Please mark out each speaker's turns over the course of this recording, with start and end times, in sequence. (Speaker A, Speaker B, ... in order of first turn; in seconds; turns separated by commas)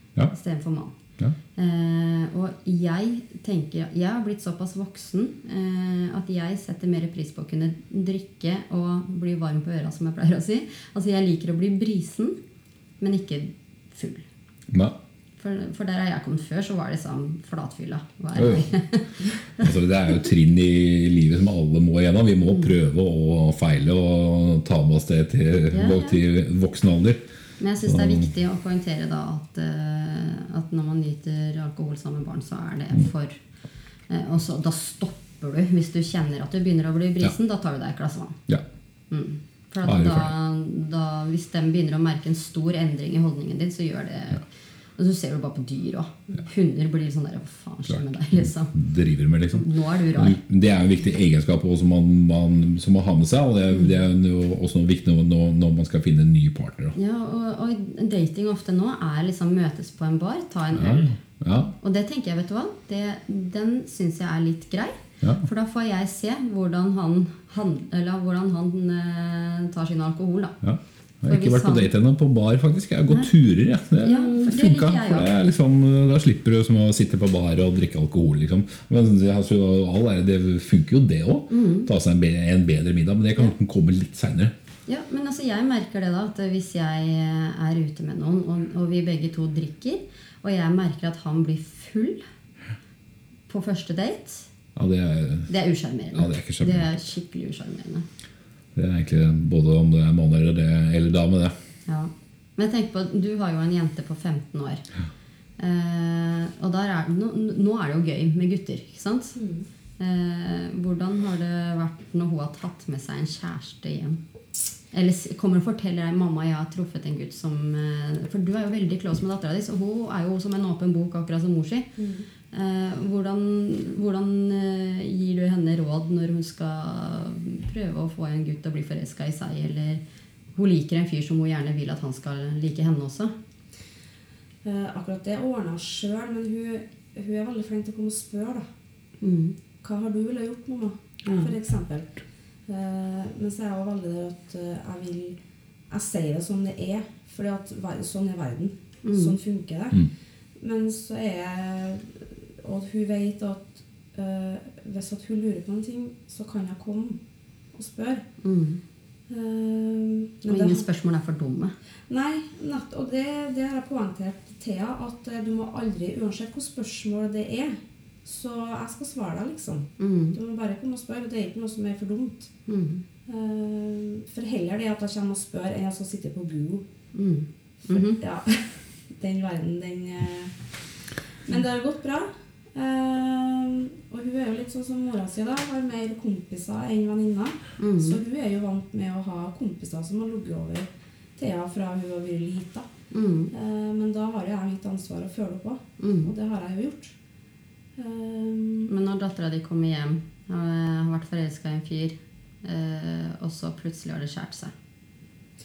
Speaker A: 0.3-1.0, Speaker A: 1.6-12.4, Speaker A: 13.0-14.3, Speaker B: 14.7-14.9, Speaker A: 15.4-19.7, Speaker B: 18.4-18.7, Speaker B: 19.6-27.2, Speaker A: 25.7-26.2, Speaker A: 27.6-33.4, Speaker B: 27.9-28.3, Speaker A: 34.1-38.4, Speaker A: 39.1-44.5, Speaker B: 39.8-40.3, Speaker A: 45.0-48.8, Speaker B: 47.9-57.0, Speaker A: 49.5-50.4, Speaker A: 53.7-54.0, Speaker A: 57.0-61.2, Speaker B: 60.7-61.7, Speaker A: 61.8-70.6, Speaker B: 70.6-84.5, Speaker A: 71.3-71.9, Speaker A: 74.0-75.3, Speaker A: 81.5-81.9, Speaker A: 84.9-92.2, Speaker A: 93.5-94.5, Speaker B: 94.8-95.5, Speaker A: 95.5-98.1, Speaker B: 96.1-96.9, Speaker B: 98.8-101.5, Speaker A: 101.9-104.8, Speaker A: 105.6-109.4, Speaker C: 109.4-109.7, Speaker A: 110.0-114.2, Speaker A: 114.9-121.9, Speaker C: 122.0-122.3, Speaker A: 122.5-130.0, Speaker A: 130.6-133.3, Speaker C: 134.6-138.7, Speaker A: 139.2-139.6, Speaker C: 139.8-142.2, Speaker C: 142.7-145.4, Speaker C: 145.9-150.1, Speaker A: 149.1-149.4, Speaker C: 150.6-157.2, Speaker C: 157.7-158.2, Speaker A: 158.4-158.8, Speaker C: 159.3-160.9, Speaker A: 160.5-161.7, Speaker C: 162.1-172.5, Speaker A: 170.0-170.4, Speaker A: 172.7-173.0, Speaker C: 173.3-176.8, Speaker A: 177.1-178.2, Speaker C: 177.9-180.6, Speaker C: 181.4-192.9, Speaker A: 187.8-188.2, Speaker A: 193.1-193.5, Speaker C: 193.5-197.1, Speaker A: 196.0-196.3, Speaker C: 198.0-198.9, Speaker A: 198.9-204.7